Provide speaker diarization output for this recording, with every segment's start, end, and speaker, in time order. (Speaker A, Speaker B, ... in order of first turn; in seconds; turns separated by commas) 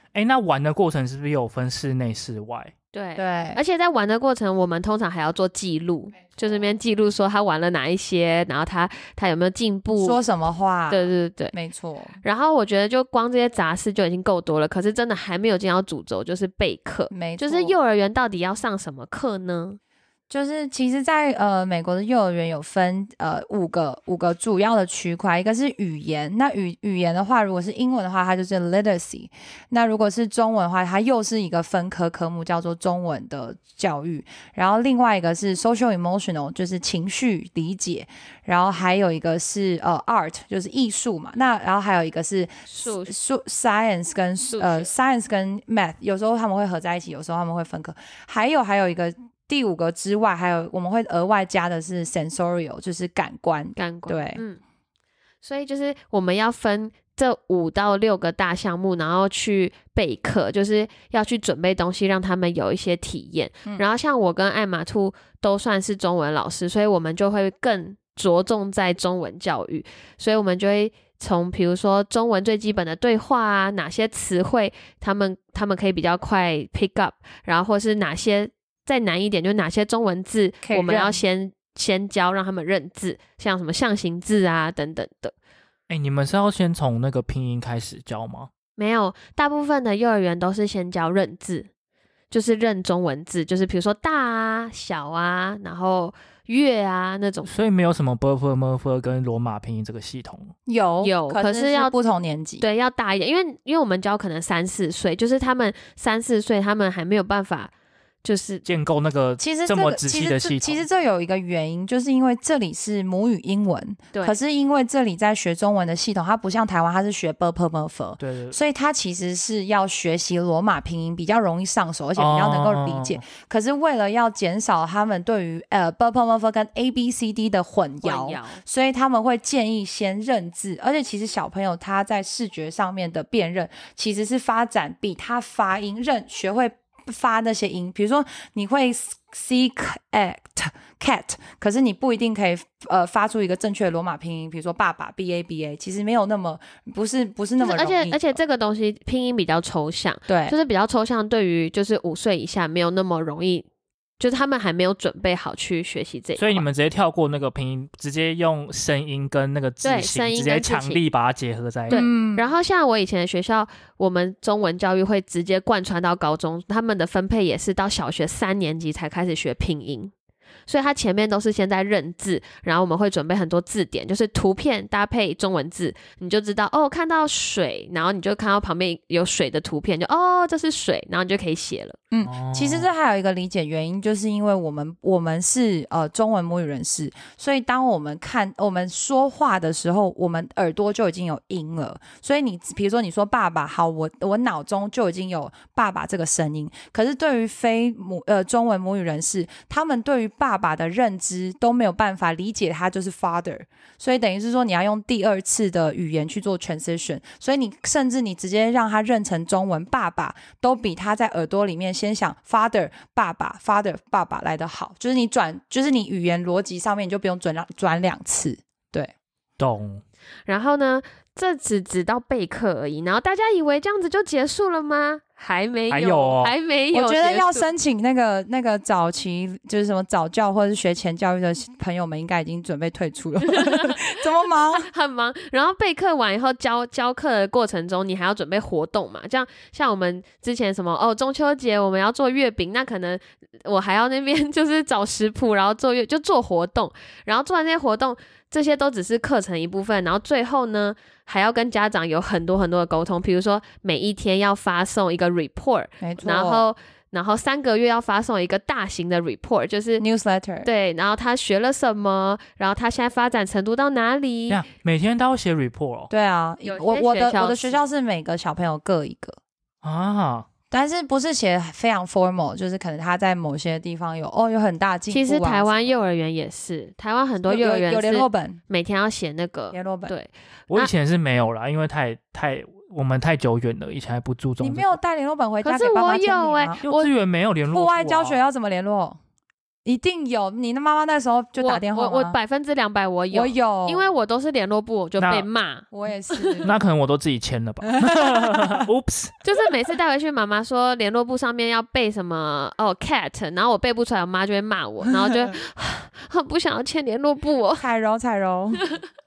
Speaker A: 0.1-2.7, Speaker B: 2.9-10.2, Speaker C: 3.1-3.6, Speaker C: 10.0-12.2, Speaker B: 10.9-11.5, Speaker B: 12.2-19.8, Speaker C: 17.1-17.8, Speaker C: 20.3-54.4, Speaker B: 42.7-43.1, Speaker B: 44.5-44.9, Speaker B: 53.8-54.6, Speaker B: 55.4-85.3, Speaker C: 80.6-81.2, Speaker A: 85.9-88.5, Speaker B: 88.8-91.7, Speaker B: 92.3-97.5, Speaker A: 97.4-100.5, Speaker C: 100.7-102.6, Speaker B: 101.0-101.9, Speaker B: 102.6-107.7, Speaker B: 108.2-108.6, Speaker A: 108.6-110.8, Speaker C: 109.4-148.2, Speaker A: 118.2-118.6, Speaker A: 122.2-123.2, Speaker B: 128.0-128.6, Speaker B: 147.6-153.6, Speaker C: 150.3-150.6, Speaker B: 154.2-156.6, Speaker A: 156.4-162.0, Speaker B: 159.8-161.0, Speaker B: 161.9-170.1, Speaker C: 161.9-162.5, Speaker B: 170.7-182.0, Speaker C: 182.1-219.1, Speaker A: 182.2-182.9, Speaker A: 219.6-220.0, Speaker B: 220.5-227.7, Speaker A: 225.9-226.5, Speaker C: 226.9-234.9, Speaker B: 233.5-234.0, Speaker B: 234.8-260.0, Speaker C: 256.0-256.7, Speaker C: 260.0-260.7, Speaker B: 260.6-264.6, Speaker A: 264.5-266.1, Speaker C: 266.1-269.4, Speaker B: 266.6-267.8, Speaker A: 269.8-270.5, Speaker C: 270.7-275.9, Speaker B: 275.1-280.9, Speaker C: 277.4-278.6, Speaker C: 279.7-280.1, Speaker A: 280.7-285.0, Speaker C: 284.6-286.8, Speaker B: 285.6-287.1, Speaker A: 286.8-288.4, Speaker C: 287.7-289.2, Speaker C: 289.8-292.4, Speaker B: 291.6-296.7, Speaker C: 293.3-294.0, Speaker A: 295.2-295.5, Speaker C: 295.9-296.7, Speaker A: 296.6-299.4, Speaker C: 298.0-298.8, Speaker B: 299.4-307.8, Speaker C: 307.8-308.9